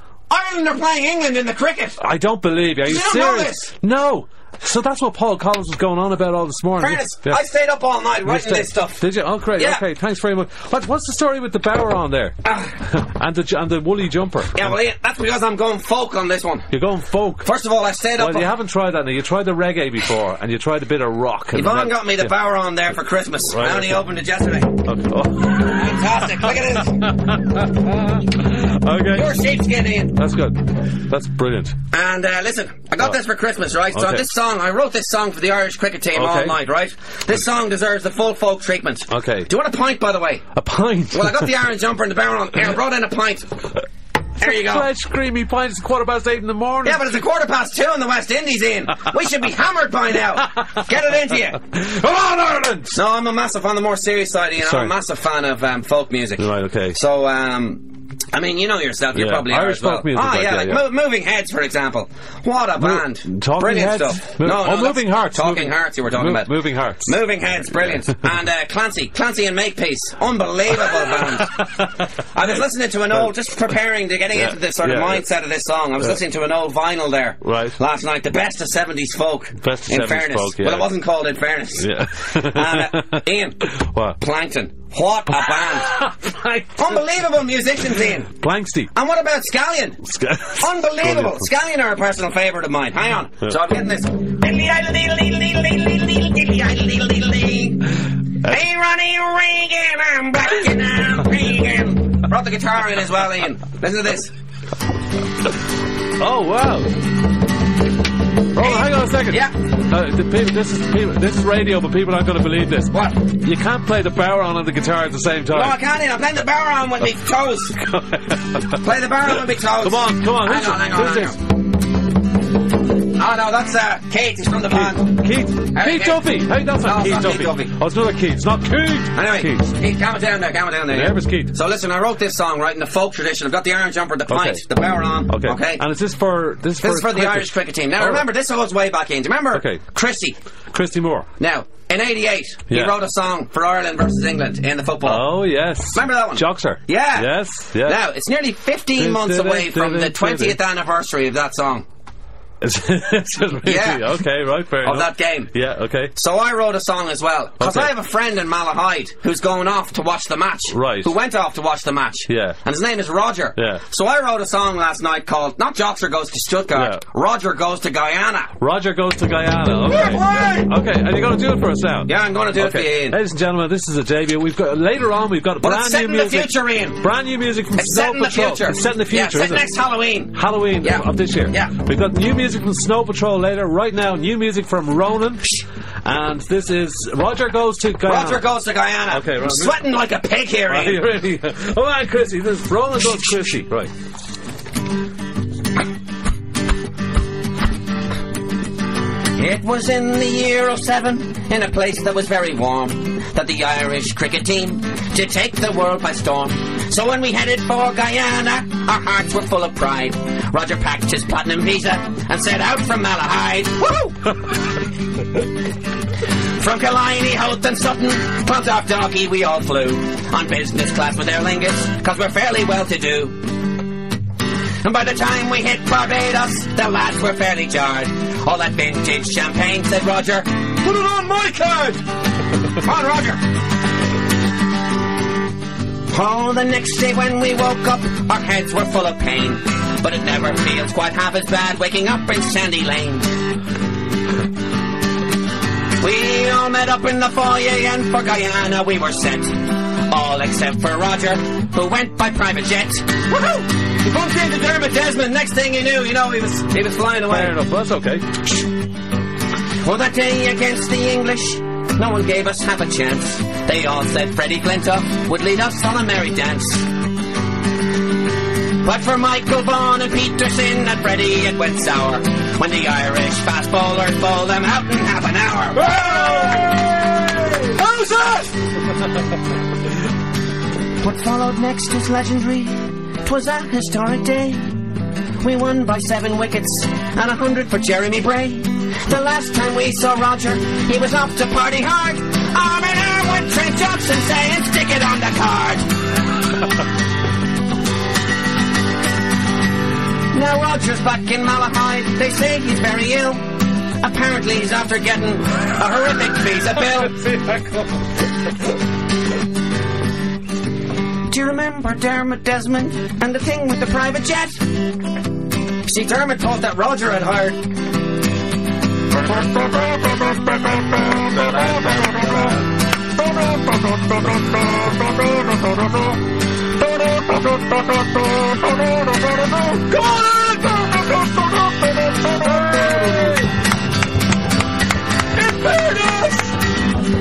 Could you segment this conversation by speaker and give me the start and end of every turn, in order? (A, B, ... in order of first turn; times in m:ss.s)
0:00.3-0:02.0 A
0:02.0-0:07.4 B
0:02.8-0:03.7 A
0:06.8-0:09.0 A
0:08.2-0:14.7 B
0:09.6-0:09.8 A
0:12.4-0:12.8 A
0:14.5-0:16.7 A
0:16.7-0:17.5 B
0:17.4-0:18.5 A
0:18.2-0:22.3 B
0:21.5-0:24.8 A
0:23.5-0:24.0 B
0:24.8-0:29.4 B
0:25.5-0:27.1 A
0:29.1-0:30.2 A
0:30.1-0:31.8 B
0:31.9-0:40.4 A
0:33.9-0:34.3 B
0:36.1-0:36.6 B
0:39.1-0:39.5 B
0:40.5-0:41.6 B
0:41.1-0:43.5 A
0:44.4-0:44.9 A
0:44.4-0:47.0 B
0:46.8-0:51.6 A
0:50.5-0:50.9 B
0:51.6-0:53.0 B
0:52.9-1:11.6 A
0:54.6-0:54.9 B
0:56.4-0:57.0 B
0:59.1-1:00.8 B
1:02.8-1:07.2 B
1:10.8-1:12.0 B
1:12.3-1:23.6 A
1:14.3-1:15.2 B
1:17.4-1:17.8 B
1:19.6-1:20.9 B
1:21.8-1:24.2 B
1:24.2-1:25.9 A
1:25.3-1:27.0 B
1:26.8-1:28.3 A
1:28.3-1:28.9 B
1:28.9-1:30.0 A
1:30.1-1:31.5 B
1:30.6-1:37.9 A
1:38.4-1:44.3 A
1:46.2-1:47.0 B
1:48.5-1:55.7 B
1:48.6-1:49.5 A
1:52.9-1:53.3 A
1:55.5-1:57.8 A
1:57.8-1:58.8 B
1:58.8-2:01.4 A
1:59.8-2:01.4 B
2:03.1-2:06.3 A
2:04.7-2:09.7 B
2:06.8-2:07.7 A
2:09.1-2:15.8 A
2:10.9-2:11.5 B
2:14.3-2:14.6 B
2:15.3-2:18.2 B
2:16.8-2:20.4 A
2:19.5-2:19.8 B
2:20.7-2:21.3 B
2:21.4-2:25.3 A
2:22.7-2:22.9 B
2:25.0-2:28.0 B
2:25.9-2:31.8 A
2:28.9-2:30.6 B
2:32.6-2:36.1 B
2:33.6-2:34.2 A
2:34.8-2:35.5 A
2:36.2-2:48.5 A
2:37.6-2:37.9 B
2:40.7-2:41.1 B
2:42.3-2:42.6 B
2:43.6-2:43.8 B
2:46.7-2:47.0 B
2:48.6-2:59.7 B
2:49.8-2:50.7 A
2:52.1-2:53.2 A
2:55.6-2:57.0 A
2:57.7-3:01.7 A
3:00.3-3:08.4 B
3:08.0-3:11.1 A
3:09.1-3:09.8 B
3:10.7-3:13.9 B
3:19.4-3:34.3 A
3:36.6-3:43.7 A
3:44.8-3:50.7 A
3:50.8-3:52.0 B
3:52.8-3:53.4 A
3:56.1-4:03.3 A
4:06.0-4:17.6 A
4:17.3-4:18.4 B
4:19.8-4:26.9 A
4:28.8-4:36.4 A
4:35.8-4:38.9 B
4:41.0-4:55.8 A
5:00.3-5:07.2 A
5:07.2-5:07.8 B
5:11.3-5:14.8 A
5:15.8-5:17.7 A
5:21.0-5:22.6 B
5:29.6-5:33.5 B
5:35.4-5:36.5 B